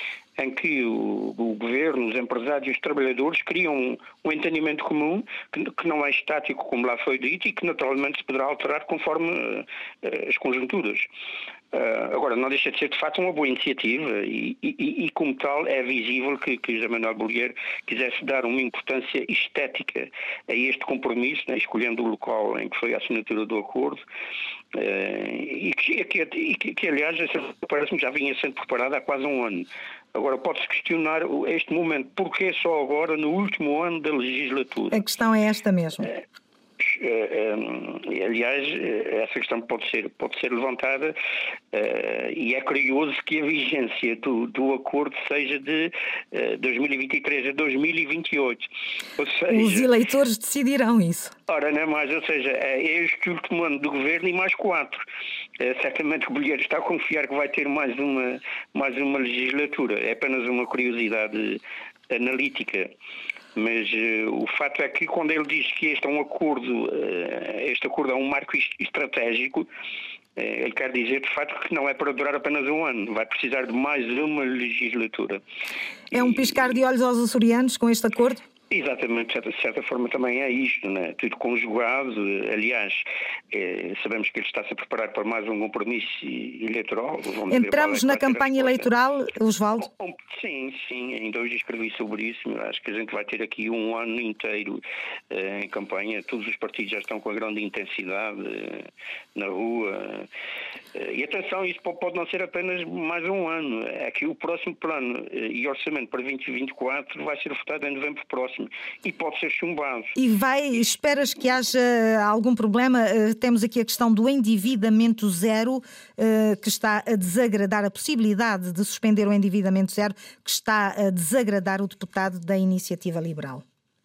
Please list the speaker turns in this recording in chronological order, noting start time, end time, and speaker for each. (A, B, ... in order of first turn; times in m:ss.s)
0:00.4-0:11.1 A
0:11.7-0:24.0 A
0:24.7-0:35.0 A
0:34.9-0:36.1 B
0:36.8-0:41.2 A
0:41.7-0:49.9 A
0:49.5-0:51.3 B
0:51.5-0:55.0 A
0:55.6-1:02.9 A
1:03.6-1:09.7 A
1:10.4-1:15.4 A
1:16.1-1:18.4 B
1:16.1-1:16.7 A
1:18.7-1:28.9 A
1:27.5-1:29.9 B
1:29.8-1:40.3 A
1:40.9-1:50.2 A
1:50.2-2:03.6 B